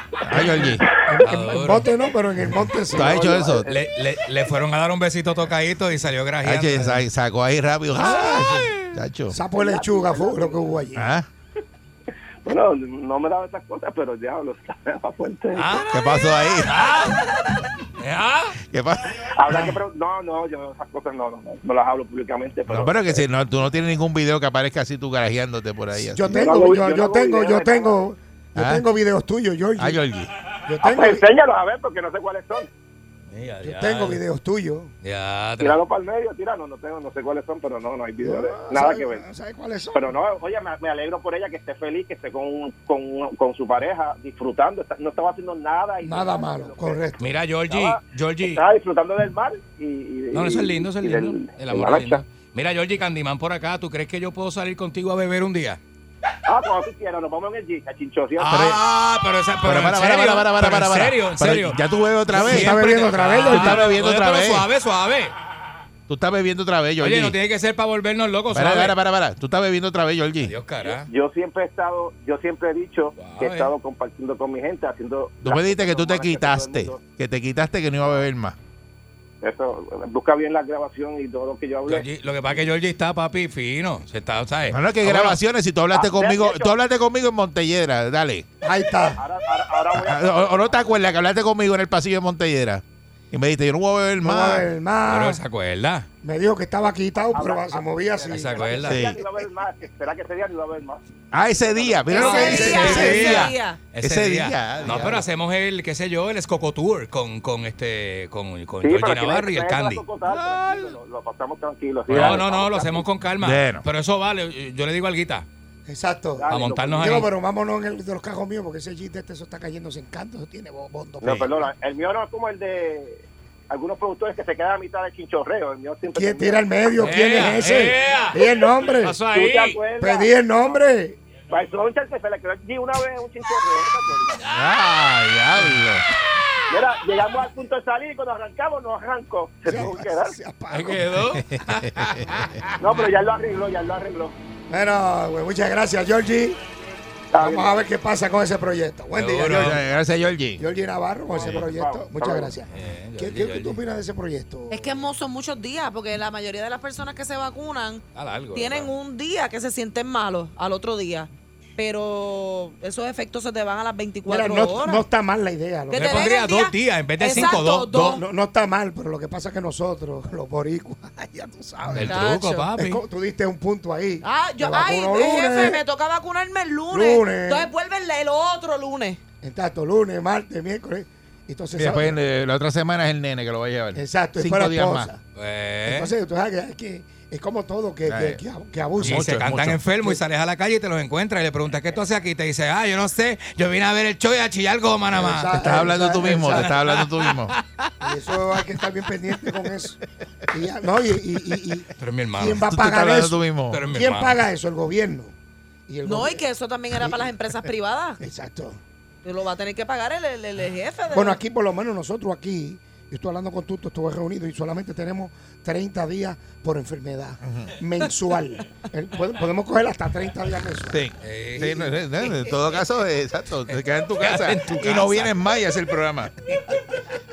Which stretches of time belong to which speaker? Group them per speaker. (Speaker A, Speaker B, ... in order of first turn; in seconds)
Speaker A: 0.2-0.9, 2.9-3.7, 6.4-9.4, 11.0-11.3, 15.9-16.8, 18.7-19.2, 22.7-26.5, 28.6-28.9, 29.8-30.3, 58.5-58.8, 59.6-62.8, 63.3-64.7, 66.1-67.4, 68.5-70.5, 75.4-78.6, 84.7-88.5, 89.9-94.7, 98.8-99.2, 101.3-105.2, 110.2-111.0, 112.1-112.4, 113.4-113.8, 134.5-136.1, 141.6-142.8, 149.5-150.6, 181.8-185.1, 188.1-188.4, 189.0-189.8, 195.6-197.6, 202.7-203.8, 217.4-217.8, 220.9-226.3
Speaker B: 0.9-3.4, 8.0-8.8, 9.3-11.1, 19.5-19.8, 26.1-30.0, 30.7-31.3, 33.6-34.9, 38.2-40.1, 46.0-47.3, 62.4-63.9, 88.6-89.2, 94.2-95.4, 96.2-98.8, 102.2-103.4, 115.9-121.7, 126.1-129.2, 130.0-131.2, 139.7-141.2, 144.7-146.6, 147.4-149.8, 150.6-154.9, 164.3-166.3, 167.3-172.2, 172.8-175.8, 176.9-177.7, 179.4-182.2, 183.9-185.2, 185.8-189.3, 195.1-196.8, 198.0-200.0, 200.5-205.3, 205.9-207.3, 208.2-208.8, 211.1-221.0, 221.6-221.9
Speaker C: 1.2-1.9, 3.7-7.0, 15.5-15.9, 16.6-17.3, 18.0-18.6, 33.3-34.2, 35.0-35.8, 47.2-48.6, 50.3-55.8, 58.4-65.3, 67.0-69.0, 70.4-71.1, 73.2-73.7, 81.9-85.4, 95.1-96.1, 98.3-99.1, 102.2-110.0, 112.1-115.5, 116.5-117.3, 127.0-128.4, 129.0-129.8, 134.4-134.9, 140.7-142.4, 149.1-149.8, 152.7-153.8, 158.2-158.9, 165.9-168.2, 171.9-173.0, 185.4-186.1, 189.0-197.9, 202.0-202.7, 203.7-204.4, 221.2-221.7, 223.7-225.3, 226.5-226.8
Speaker D: 2.9-3.8, 9.5-10.7, 12.4-15.8, 19.2-23.3, 26.4-28.0, 30.8-32.7, 35.6-39.2, 39.9-47.0, 47.7-52.2, 56.5-58.8, 70.8-77.0, 78.0-78.3, 79.4-82.0, 85.9-86.8, 89.2-91.0, 97.3-101.0, 101.7-102.7, 108.8-113.1, 116.4-117.3, 121.2-128.7, 129.3-130.3, 131.5-134.5, 136.7-140.3, 142.8-144.3, 147.3-147.8, 151.3-152.5
Speaker E: 102.1-103.8, 154.7-165.0, 165.9-168.2, 172.0-172.7, 174.2-179.2, 206.1-208.2, 209.2-211.4